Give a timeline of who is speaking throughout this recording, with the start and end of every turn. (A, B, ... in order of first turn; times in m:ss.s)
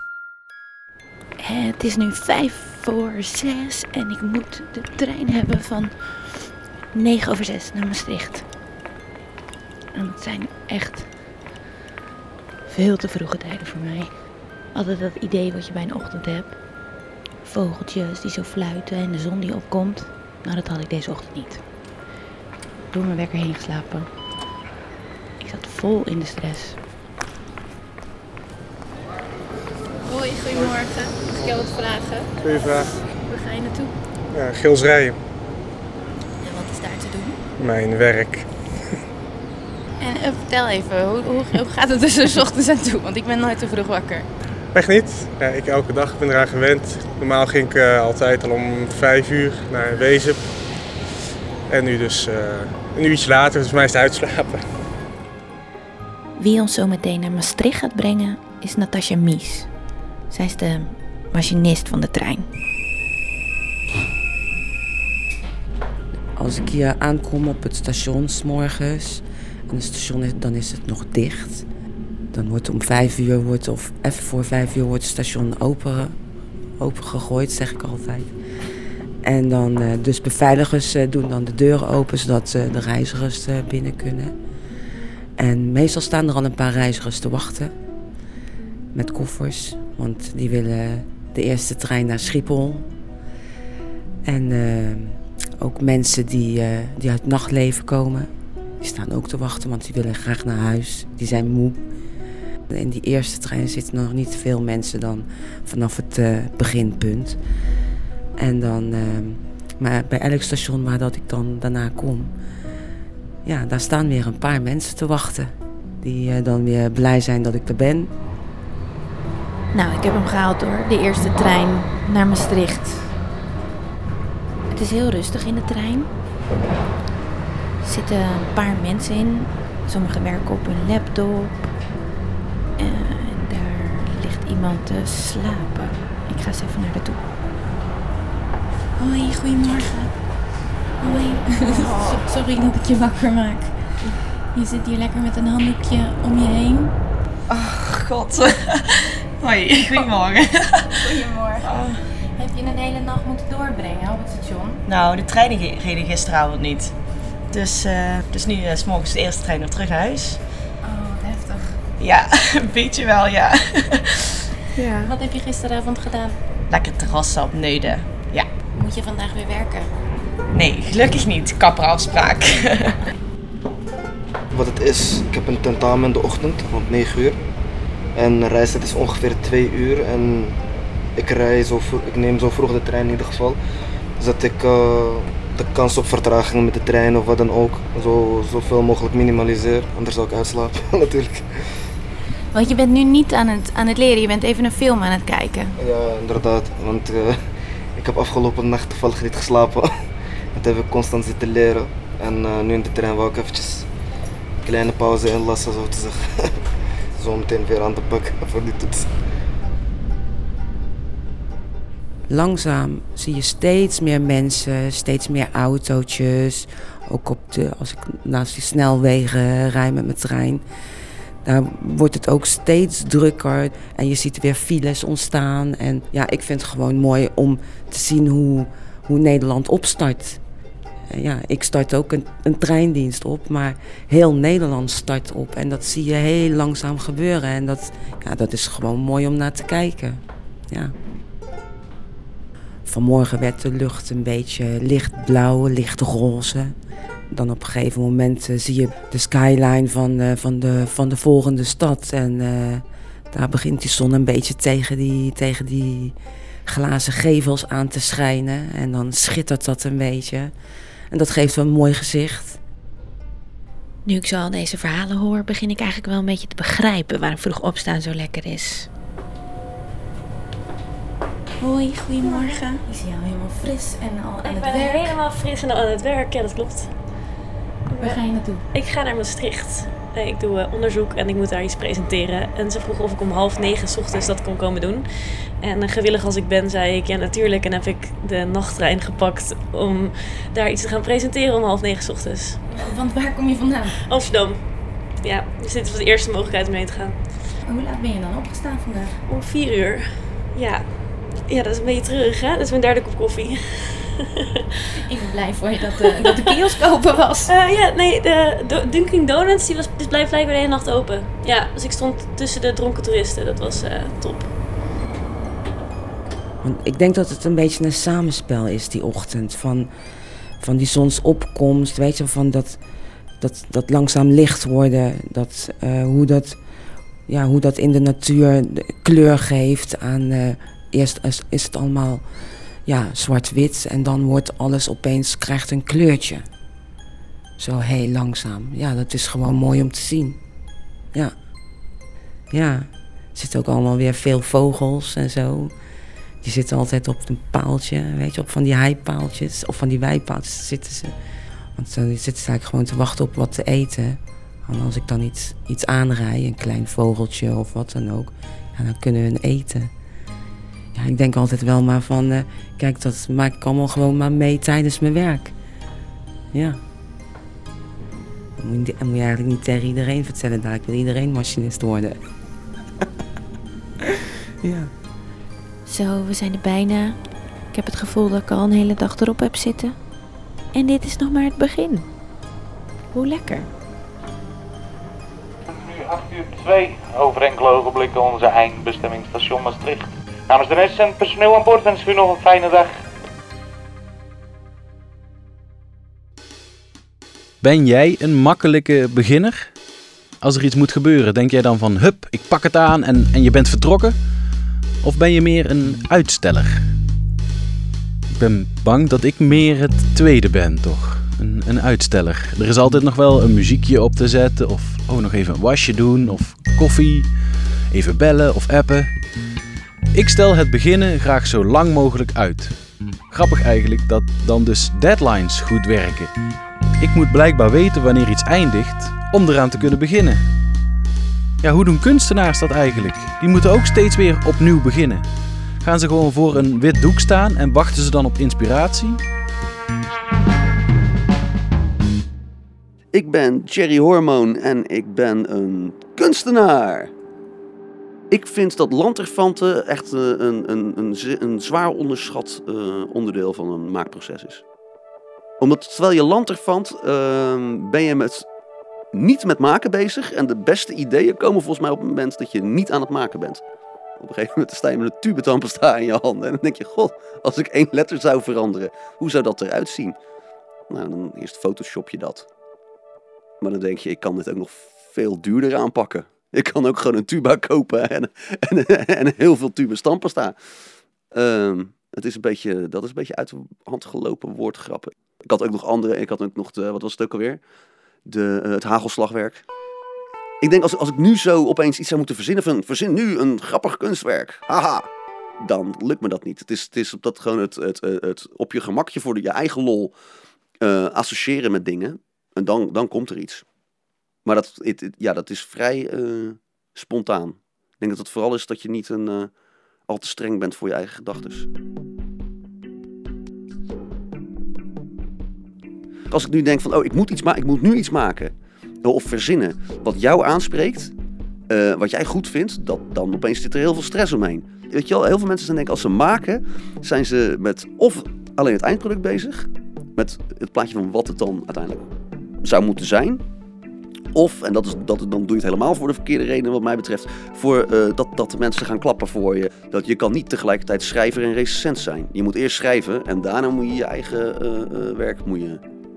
0:01.4-0:08.5 A
0:09.9-0:11.2 A
0:12.7-0:16.6 A
0:17.4-0:21.6 A
0:22.9-0:24.1 A
0:25.4-0:26.8 A
0:30.0-0:32.3 B
0:31.3-0:31.6 C
0:32.4-0:32.9 C
0:33.3-0:33.9 B
0:34.3-0:35.2 C
0:36.4-0:37.4 B
0:37.6-0:38.7 C
0:40.0-0:44.3 B
0:44.7-0:50.5 C
0:51.7-0:54.6 C
0:56.4-0:59.7 A
1:00.3-1:02.5 A
1:06.4-1:11.6 D
1:12.3-1:16.2 D
1:16.8-1:18.3 D
1:19.2-1:24.3 D
1:25.4-1:27.7 D
1:28.9-1:32.9 D
1:34.2-1:41.8 D
1:42.7-1:47.4 D
1:48.4-1:52.3 D
1:53.4-1:58.1 D
1:59.8-2:01.0 A
2:04.7-2:06.1 A
2:07.8-2:11.6 A
2:12.8-2:17.2 A
2:19.0-2:20.1 B
2:21.0-2:23.7 B
2:21.8-2:22.2 E
2:24.5-2:26.9 B
2:27.5-2:32.0 E
2:31.0-2:31.7 B
2:32.3-2:34.8 B
2:34.8-2:36.9 E
2:37.5-2:40.4 E
2:40.8-2:41.8 B
2:42.0-2:44.2 E
2:44.8-2:45.1 E
2:45.0-2:46.4 B
2:46.7-2:48.5 E
2:48.7-2:49.9 B
2:50.5-2:53.0 E
2:54.5-2:57.4 F
2:58.1-3:00.6 F
3:01.2-3:03.6 F
3:04.2-3:11.4 F
3:12.5-3:15.7 B
3:15.8-3:17.4 F
3:18.0-3:19.9 F
3:20.5-3:23.9 F
3:24.6-3:26.5 F
3:27.1-3:29.1 F
3:32.3-3:40.6 D
3:41.4-3:50.4 D
3:51.1-4:00.9 D
4:02.8-4:06.8 D
4:07.3-4:20.5 D
4:21.1-4:22.6 D
4:24.0-4:28.9 A
4:31.6-4:35.1 B
4:32.2-4:32.6 G
4:34.4-4:36.9 G
4:37.9-4:52.6 G
4:38.0-4:38.6 B
4:52.7-4:54.0 B
4:54.1-4:54.6 G
4:55.2-4:57.2 G
4:57.6-4:59.2 B
4:59.3-5:00.9 G
5:01.4-5:04.6 G
5:05.0-5:07.5 B
5:06.0-5:06.8 G
5:07.4-5:14.5 G
5:16.6-5:19.9 D
5:20.6-5:22.8 D
5:23.4-5:26.6 D
5:27.3-5:32.2 D
5:32.8-5:36.5 D
5:37.6-5:40.4 D
5:42.5-5:45.7 D
5:46.4-5:51.1 D
5:51.8-5:59.9 D
6:00.9-6:05.5 D
6:06.5-6:06.8 D
6:08.6-6:12.2 D
6:14.6-6:14.9 D
6:15.8-6:20.0 A
6:20.7-6:22.1 A
6:23.1-6:23.7 A
6:25.7-6:33.0 H
6:37.6-6:39.7 I
6:40.4-6:44.2 I
6:45.0-6:46.9 I
6:48.3-6:57.3 I
6:57.9-6:59.1 I
7:00.1-7:02.8 I
7:03.3-7:06.3 I
7:07.0-7:10.4 I
7:11.6-7:15.3 I
7:15.8-7:19.2 I
7:23.1-7:27.1 J
7:28.3-7:34.6 J
7:35.6-7:38.4 J
7:39.1-7:43.6 J
7:44.2-7:50.2 J
7:50.9-7:52.4 J
7:53.6-8:00.6 J
8:01.3-8:07.6 J
8:08.2-8:09.6 J
8:10.6-8:15.1 J
8:15.6-8:20.1 J
8:20.8-8:23.6 J
8:24.4-8:29.5 J
8:30.1-8:31.7 J
8:36.3-8:38.5 J
8:39.0-8:41.1 J
8:41.7-8:52.1 J
8:52.6-8:53.4 J
8:54.3-9:05.8 J